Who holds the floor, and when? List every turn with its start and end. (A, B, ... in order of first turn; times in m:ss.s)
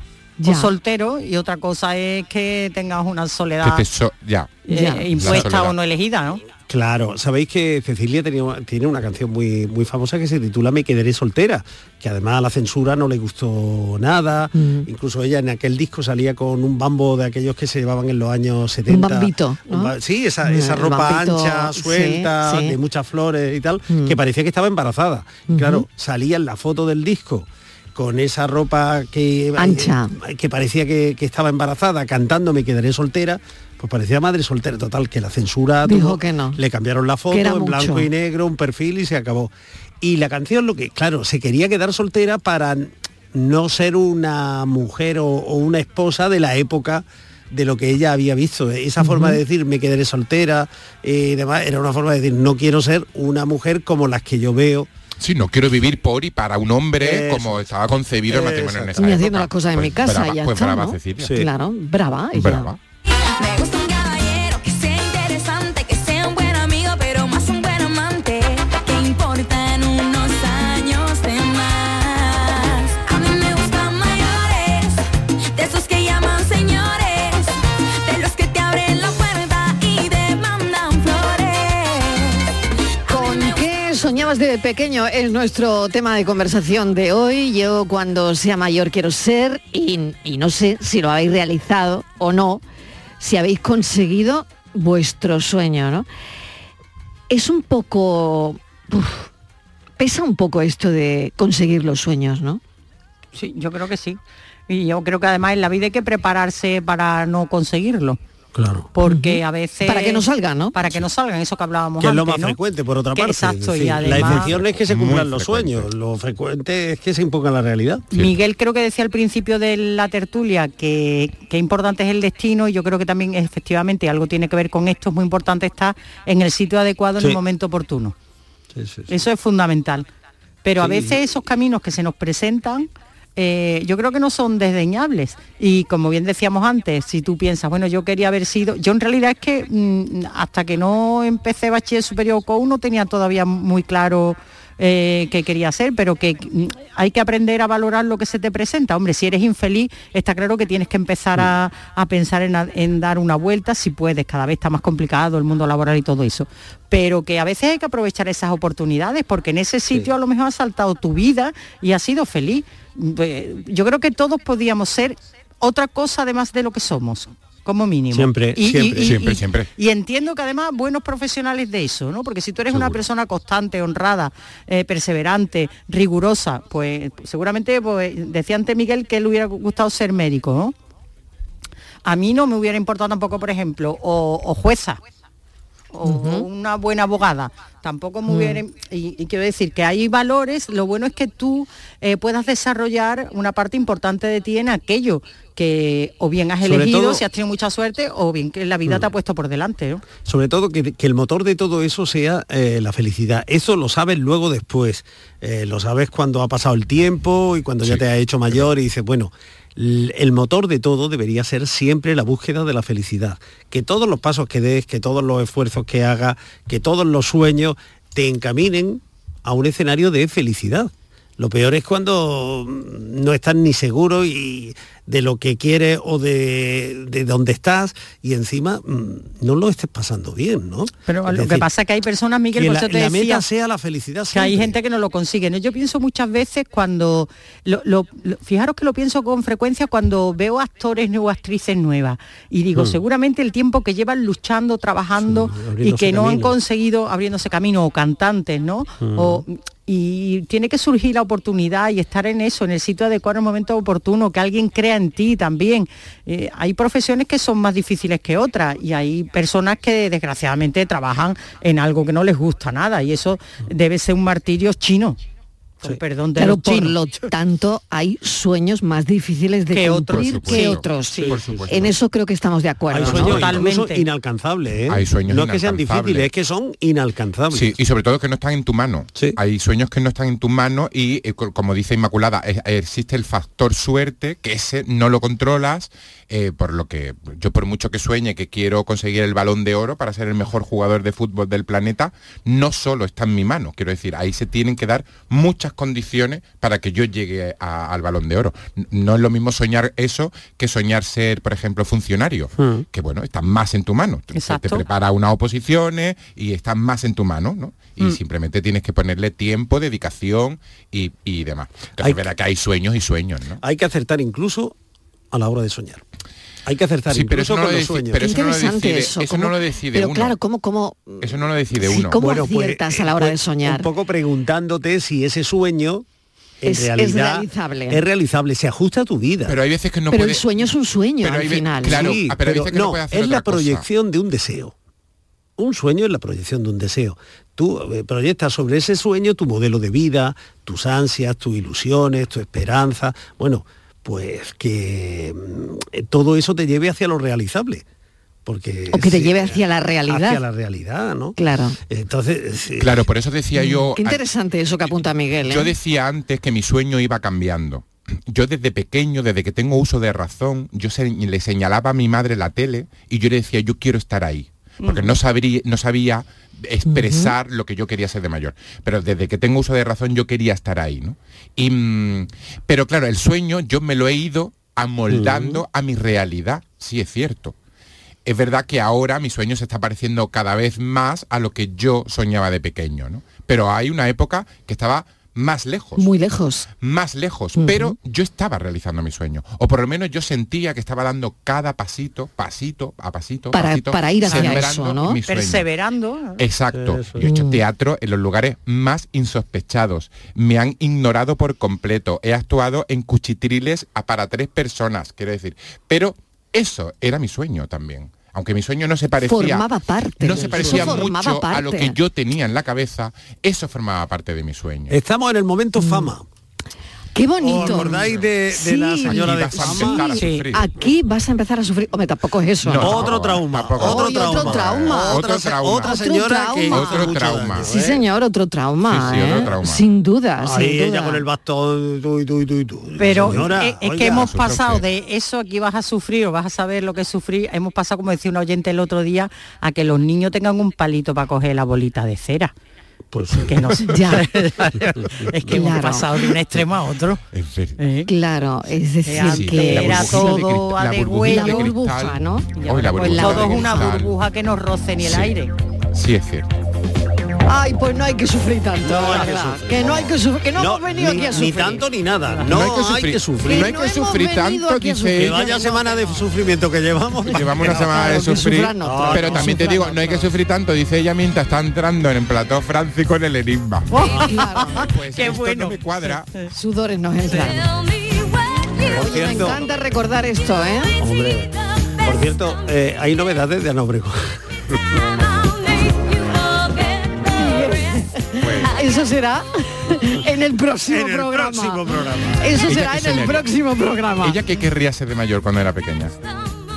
0:00.4-0:00.7 A
0:00.4-0:03.8 B
0:03.6-0:04.6 C
0:04.7-0:06.4 B
0:04.7-0:05.4 A
0:05.1-0:05.7 C
0:06.7-0:54.9 D
0:14.5-0:14.9 A
0:18.9-0:22.8 A
0:23.9-0:24.2 A
0:25.5-0:25.8 A
0:29.6-0:30.1 A
0:35.8-0:36.6 A
0:37.3-0:38.1 A
0:49.0-0:49.4 A
0:55.2-1:01.4 C
0:57.0-0:57.7 D
0:58.3-0:59.0 D
0:59.0-1:02.7 A
1:01.2-1:01.5 D
1:02.3-1:02.8 C
1:03.2-1:22.5 E
1:23.1-1:23.6 E
1:23.1-1:32.6 A
1:33.2-1:36.0 A
1:37.3-1:39.3 A
1:40.0-1:42.6 A
1:43.3-1:48.2 B
1:48.5-1:48.9 D
1:48.9-1:52.6 B
1:49.0-1:50.8 A
1:52.0-1:58.1 D
1:53.1-1:54.5 B
1:54.0-1:55.9 C
1:58.1-2:08.1 B
2:08.7-2:09.1 D
2:09.1-2:10.1 B
2:10.6-3:00.7 B
2:10.8-2:11.2 D
2:48.1-2:49.1 D
2:49.0-2:49.7 C
3:02.0-3:05.0 B
3:05.9-3:20.0 B
3:06.0-3:06.4 A
3:08.3-3:08.6 A
3:16.6-3:17.2 D
3:20.1-3:51.7 D
3:27.8-3:28.6 C
3:51.1-3:53.4 B
3:52.5-3:54.7 D
3:54.3-4:25.2 B
4:05.2-4:06.5 D
4:09.0-4:09.4 D
4:25.8-4:27.0 B
4:26.4-4:33.5 A
4:29.7-4:30.8 B
4:30.1-4:32.0 C
4:31.1-4:31.6 D
4:32.9-4:37.8 D
4:33.0-4:34.0 B
4:34.9-4:36.3 C
4:37.5-5:13.6 C
5:02.6-5:02.8 D
5:04.3-5:04.8 B
5:12.0-5:12.2 D
5:13.6-5:14.7 D
5:15.3-5:16.0 D
5:16.6-5:18.2 D
5:17.1-5:20.4 C
5:18.2-5:23.9 A
5:21.2-5:22.2 C
5:22.1-5:26.0 D
5:26.6-5:29.6 D
5:26.6-5:28.0 A
5:29.5-5:30.7 C
5:30.1-5:32.1 A
5:31.2-5:33.8 C
5:31.9-5:34.7 D
5:35.6-5:47.8 D
5:48.4-5:51.4 D
5:48.9-5:50.4 A
5:51.4-5:51.8 A
5:51.9-5:53.0 D
5:52.8-5:54.2 C
5:53.6-5:55.7 A
5:54.8-6:17.5 C
6:04.8-6:05.1 B
6:06.9-6:07.3 A
6:15.1-6:15.6 D
6:18.2-6:26.1 C
6:26.0-6:26.7 A
6:26.8-6:35.7 C
6:27.6-6:27.9 A
6:33.5-6:35.2 A
6:35.3-6:36.4 B
6:36.4-6:49.7 C
6:36.7-6:37.2 D
6:37.2-6:37.6 A
6:49.2-6:52.0 A
6:50.2-6:54.9 C
6:50.6-6:50.9 D
6:54.9-6:56.2 D
6:55.8-6:56.1 A
6:57.1-7:03.1 A
6:57.4-7:00.1 D
6:57.6-6:58.3 C
6:59.0-7:00.7 C
7:00.1-7:00.5 B
7:02.6-7:06.0 C
7:02.8-7:08.0 D
7:03.8-7:05.2 A
7:05.8-7:11.2 A
7:06.7-7:07.7 C
7:08.9-7:09.9 C
7:10.4-7:14.4 D
7:13.0-7:22.5 B
7:14.1-7:14.8 C
7:23.1-7:23.7 D
7:23.4-7:27.2 B
7:23.8-7:24.3 A
7:25.4-7:26.2 A
7:27.3-7:27.8 C
7:27.8-7:28.1 B
7:28.1-7:30.6 A
7:29.0-7:31.7 B
7:29.2-7:34.1 C
7:31.2-7:33.9 A
7:32.6-7:35.5 B
7:35.0-7:35.4 C
7:35.9-7:36.5 C
7:37.4-7:41.8 A
7:38.8-7:43.7 D
7:42.4-7:45.4 C
7:43.4-7:46.1 A
7:45.2-7:50.2 D
7:47.3-7:56.3 C
7:47.6-7:50.2 A
7:53.9-7:56.5 B
7:54.0-7:54.9 A
7:56.5-7:57.6 A
7:57.2-7:57.5 B
7:57.6-7:58.9 E
7:58.9-7:59.6 D
7:58.9-8:01.0 A
8:01.0-8:04.4 D
8:05.2-8:08.3 E
8:07.4-8:14.4 A
8:08.4-8:08.7 C
8:10.9-8:12.6 D
8:12.5-8:13.5 C
8:14.2-8:16.1 C